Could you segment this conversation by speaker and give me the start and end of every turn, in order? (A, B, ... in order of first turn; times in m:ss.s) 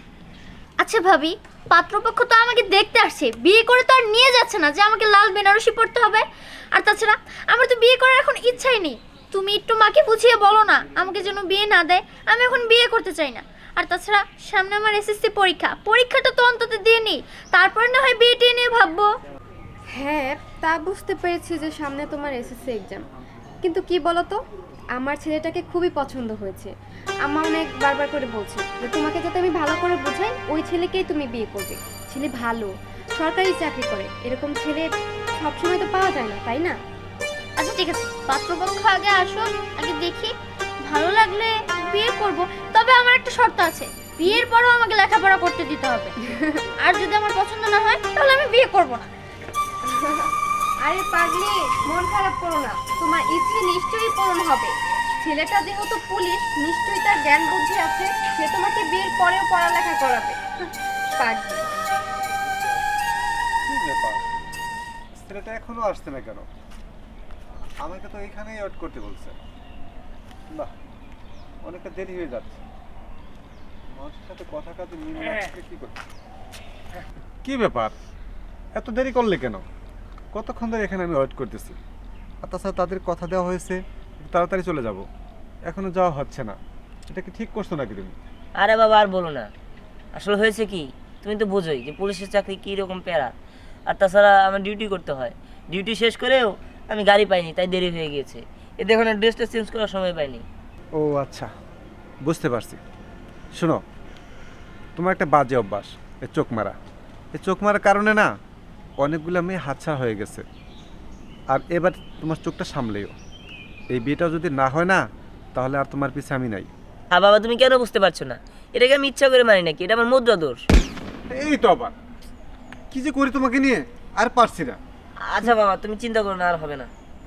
0:00.8-0:06.2 A
0:06.8-0:19.1 A
0:20.0-0:23.0 B
0:23.6-0:24.4 B
0:25.0-0:26.7 B
0:27.2-0:34.9 B
0:35.4-0:36.8 B
0:37.6-0:40.3 A
0:40.9-0:46.1 A
0:46.8-0:49.1 A
0:50.0-0:50.3 B
0:50.8-1:00.4 B
1:01.2-1:01.6 B
1:03.7-1:04.2 C
1:05.2-1:06.5 C
1:07.8-1:09.4 C
1:11.6-1:12.6 C
1:13.9-1:16.0 C
1:17.4-1:18.0 C
1:18.8-1:19.6 C
1:20.3-1:21.8 C
1:22.4-1:25.1 C
1:25.7-1:26.6 C
1:27.1-1:28.2 C
1:28.6-1:29.5 D
1:30.2-1:33.3 D
1:33.9-1:40.4 D
1:41.0-1:41.5 C
1:42.2-1:42.8 C
1:43.6-1:43.8 C
1:45.0-1:46.8 C
1:47.4-1:48.3 C
1:49.0-1:50.4 C
1:51.5-1:53.2 C
1:53.9-1:55.0 C
1:55.6-1:56.7 C
1:57.1-2:00.6 D
2:01.3-2:02.0 C
2:02.9-2:04.8 C
2:05.3-2:06.9 D